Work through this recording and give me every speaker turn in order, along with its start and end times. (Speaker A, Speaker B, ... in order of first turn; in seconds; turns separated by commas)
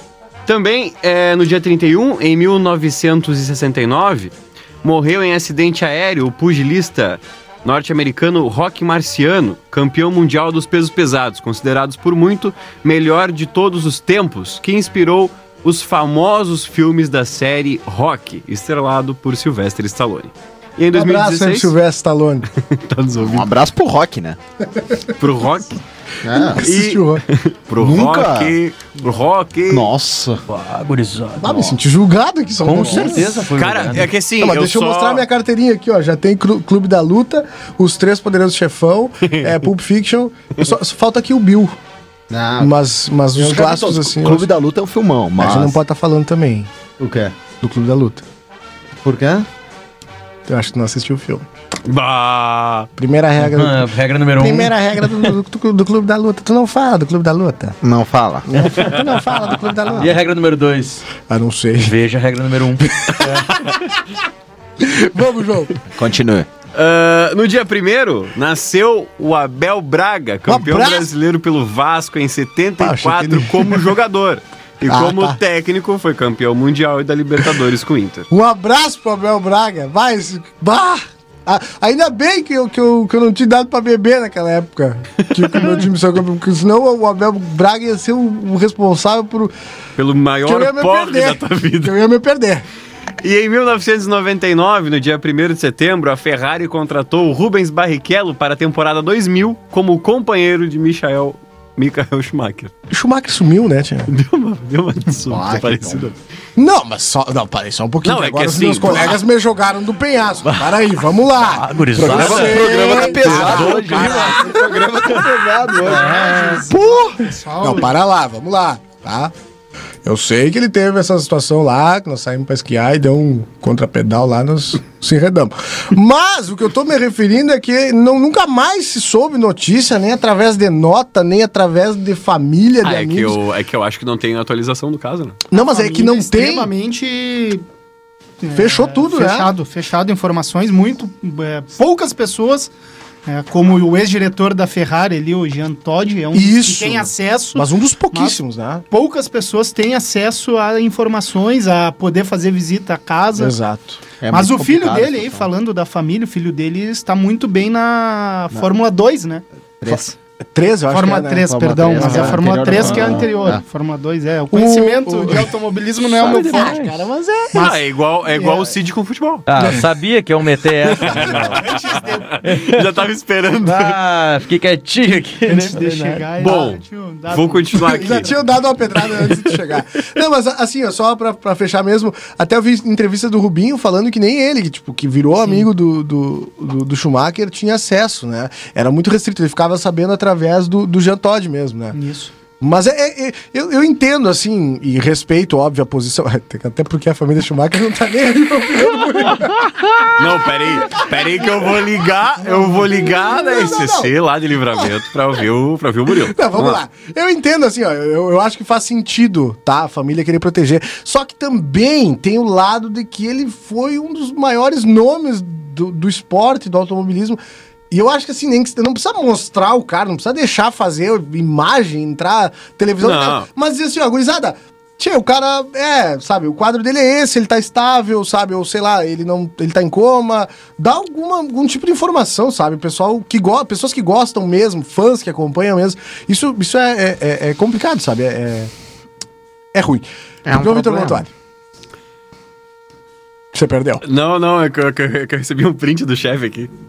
Speaker A: 0.5-21.7, Speaker B: 20.9-22.5, Speaker A: 22.6-23.5, Speaker C: 23.2-24.4, Speaker A: 25.2-25.8, Speaker C: 26.2-26.6, Speaker B: 26.3-27.2, Speaker A: 26.6-29.9, Speaker C: 27.8-28.5, Speaker C: 29.7-30.4, Speaker D: 30.5-31.6, Speaker B: 31.4-33.4, Speaker D: 32.6-34.1, Speaker A: 33.5-35.3, Speaker B: 34.4-41.8, Speaker A: 39.3-39.5, Speaker C: 42.3-42.7, Speaker B: 42.6-44.5, Speaker C: 43.4-45.8, Speaker B: 45.4-46.7, Speaker C: 47.0-47.3, Speaker B: 47.6-48.2, Speaker C: 49.0-49.5, Speaker B: 50.5-51.5, Speaker A: 51.9-52.9, Speaker B: 53.0-57.8, Speaker D: 53.4-54.7, Speaker C: 57.8-58.7, Speaker B: 58.5-60.1, Speaker D: 60.0-61.1, Speaker B: 61.3-62.0, Speaker D: 61.8-63.4, Speaker B: 63.0-63.5, Speaker B: 64.8-65.7, Speaker C: 65.9-66.5, Speaker A: 66.7-78.3, Speaker B: 70.5-71.1, Speaker B: 72.8-73.9, Speaker B: 74.9-75.4, Speaker B: 78.3-89.5, Speaker A: 85.2-85.7, Speaker A: 90.0-92.0, Speaker B: 90.5-92.7, Speaker A: 93.2-102.7, Speaker B: 102.9-104.1, Speaker A: 104.1-106.1, Speaker C: 105.3-106.1, Speaker B: 106.6-115.2, Speaker A: 108.0-109.2, Speaker D: 111.5-114.5, Speaker C: 112.0-116.3, Speaker A: 113.2-113.7, Speaker E: 115.8-117.9, Speaker D: 115.9-116.6, Speaker B: 117.6-119.3, Speaker B: 120.0-133.4, Speaker A: 132.8-135.4, Speaker B: 135.5-136.7, Speaker E: 135.5-137.6, Speaker E: 138.4-142.7, Speaker B: 138.6-139.5, Speaker E: 143.3-148.4, Speaker B: 146.3-148.8, Speaker E: 148.9-153.6, Speaker B: 153.4-154.0, Speaker C: 154.2-155.5, Speaker E: 154.3-159.4, Speaker C: 159.8-160.2, Speaker B: 160.5-162.5, Speaker E: 160.9-166.8, Speaker C: 161.4-163.6, Speaker D: 162.7-163.2, Speaker B: 164.5-165.5, Speaker D: 166.2-167.0, Speaker B: 166.2-167.5, Speaker E: 167.5-167.8, Speaker A: 167.6-169.5, Speaker E: 168.3-168.7, Speaker D: 169.5-171.6, Speaker A: 171.0-171.7, Speaker E: 171.5-172.3, Speaker A: 172.3-174.0, Speaker D: 172.4-172.9, Speaker D: 173.6-176.5, Speaker E: 175.5-177.7, Speaker A: 176.4-178.3, Speaker B: 177.7-192.0, Speaker E: 191.9-192.3, Speaker B: 192.6-204.1, Speaker A: 200.1-206.8, Speaker B: 206.1-217.4, Speaker B: 217.9-238.7, Speaker A: 223.0-223.5, Speaker B: 239.7-241.3, Speaker C: 240.5-241.2, Speaker B: 243.5-244.0, Speaker A: 244.0-246.7